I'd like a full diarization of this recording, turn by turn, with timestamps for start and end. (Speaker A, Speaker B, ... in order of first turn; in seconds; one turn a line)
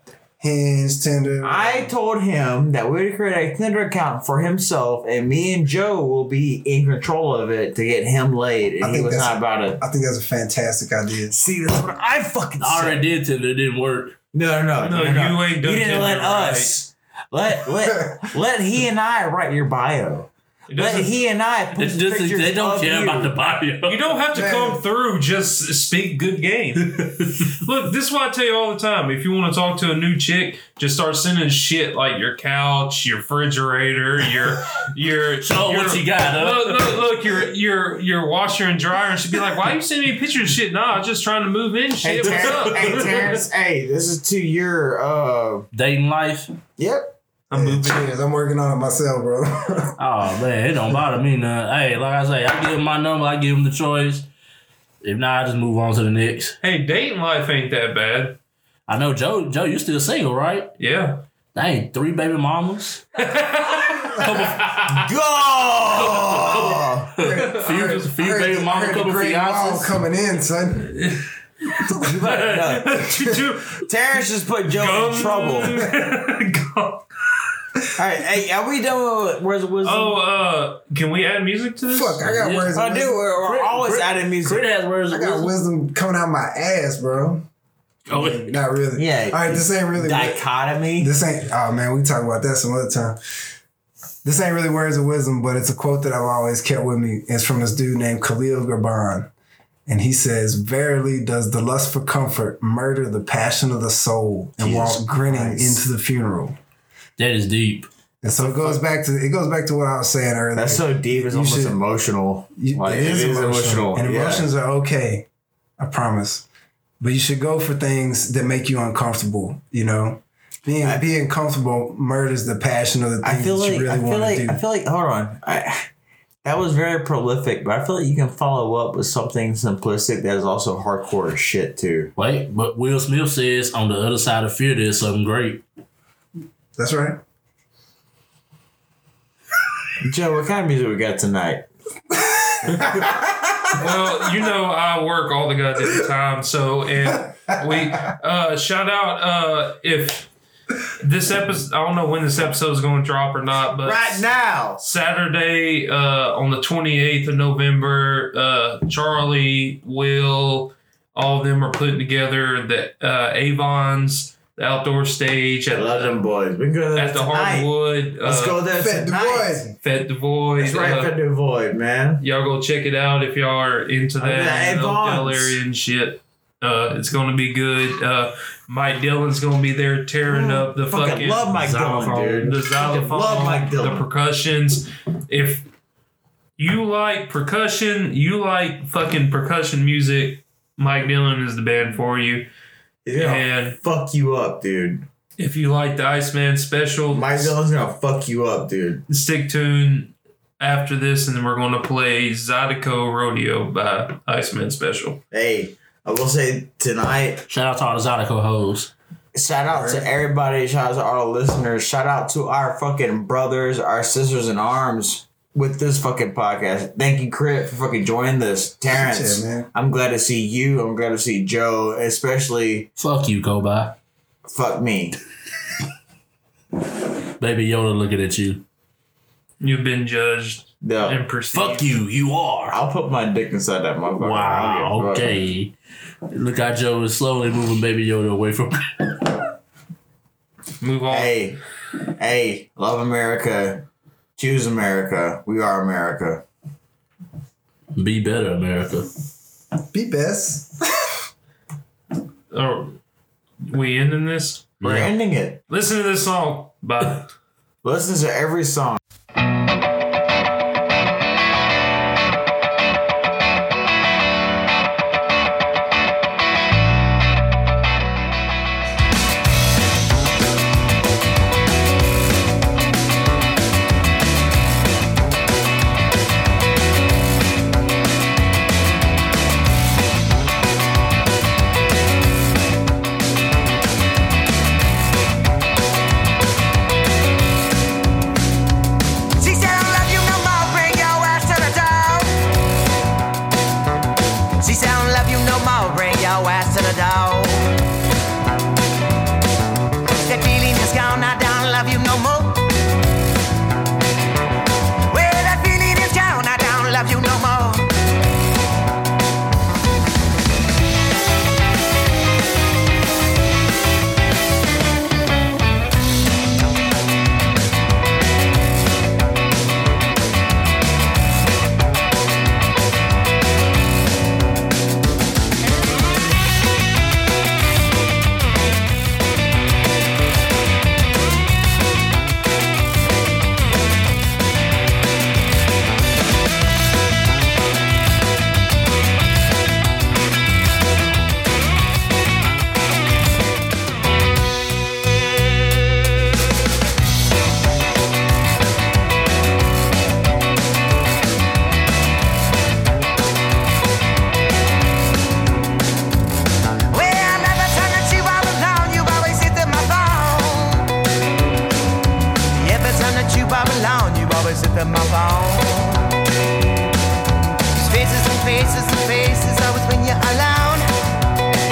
Speaker A: 0.4-1.9
Speaker B: 1.4-9.8
Speaker A: 8.8-11.4
Speaker B: 11.3-13.0
Speaker C: 12.6-14.2
Speaker B: 14.3-23.4
Speaker D: 14.8-16.7
Speaker A: 17.8-18.2
Speaker D: 20.7-21.1
Speaker C: 21.7-24.1
Speaker D: 23.8-43.4
Speaker A: 24.3-24.8
Speaker C: 26.9-27.4
Speaker C: 35.4-36.9
Speaker B: 42.0-45.6
Speaker C: 42.3-42.6
Speaker C: 45.7-46.5
Speaker B: 46.8-47.1
Speaker D: 47.5-48.0
Speaker A: 47.5-50.0
Speaker C: 50.0-54.3
Speaker C: 55.0-56.6
Speaker D: 56.6-58.4
Speaker C: 58.9-60.7
Speaker D: 60.8-61.2
Speaker C: 61.5-63.1
Speaker D: 63.2-65.1
Speaker C: 64.1-64.8
Speaker B: 64.9-67.1
Speaker C: 66.0-69.9
Speaker A: 67.2-70.9
Speaker D: 67.3-68.0
Speaker D: 70.9-73.8
Speaker B: 72.0-73.0
Speaker A: 73.1-73.4
Speaker B: 73.8-75.8
Speaker D: 74.8-77.0
Speaker B: 77.9-80.2
Speaker D: 79.8-82.4
Speaker A: 81.9-83.2
Speaker C: 82.4-82.7
Speaker B: 82.7-84.6
Speaker C: 83.4-85.5
Speaker A: 85.1-87.4
Speaker C: 88.1-88.5
Speaker A: 88.1-90.4
Speaker B: 89.0-91.1
Speaker A: 91.0-93.2
Speaker A: 94.2-99.3
Speaker A: 99.9-106.5
Speaker B: 104.6-105.8
Speaker C: 107.2-107.9
Speaker A: 108.2-111.8
Speaker B: 108.4-108.8
Speaker B: 110.5-114.5
Speaker A: 112.6-115.3
Speaker A: 115.8-116.5
Speaker A: 117.0-124.6
Speaker B: 123.2-125.9
Speaker B: 126.4-132.1
Speaker C: 132.2-135.6
Speaker A: 136.8-137.2
Speaker B: 140.0-141.7
Speaker A: 142.6-143.2
Speaker D: 143.7-150.3
Speaker D: 151.0-154.3
Speaker B: 153.8-154.8
Speaker D: 154.8-166.2
Speaker B: 165.7-167.7
Speaker D: 166.9-168.6
Speaker B: 168.2-169.6
Speaker A: 168.7-169.8
Speaker D: 169.8-171.1
Speaker B: 170.6-172.2
Speaker D: 172.2-181.5
Speaker B: 174.2-175.6
Speaker B: 180.3-184.1
Speaker C: 181.5-182.5
Speaker D: 182.4-185.7
Speaker D: 186.6-192.5
Speaker B: 193.0-195.1
Speaker D: 193.2-193.8
Speaker D: 195.4-197.5
Speaker B: 197.1-199.0
Speaker D: 199.1-205.2
Speaker B: 205.3-207.4
Speaker C: 207.5-208.9
Speaker B: 209.3-222.9
Speaker A: 209.7-210.1
Speaker A: 218.9-219.7
Speaker C: 222.9-223.9
Speaker B: 224.4-225.2
Speaker C: 227.4-228.6
Speaker D: 229.6-232.0
Speaker B: 230.8-231.2
Speaker C: 231.5-232.8
Speaker B: 232.7-235.4
Speaker C: 234.2-235.7
Speaker C: 236.3-239.2
Speaker D: 240.8-241.4
Speaker B: 241.1-241.6
Speaker B: 242.2-243.8
Speaker B: 244.4-246.4
Speaker C: 247.9-249.1
Speaker A: 249.9-251.1
Speaker D: 252.5-253.0
Speaker D: 253.6-254.7
Speaker C: 254.8-255.1
Speaker B: 254.8-255.6
Speaker D: 255.7-257.3
Speaker B: 257.8-259.0
Speaker E: 289.4-292.3
Speaker E: 294.6-297.8
Speaker E: 300.2-302.7
Speaker E: 305.1-307.9
Speaker E: 356.9-360.9
Speaker E: 362.5-366.1
Speaker E: 367.8-370.9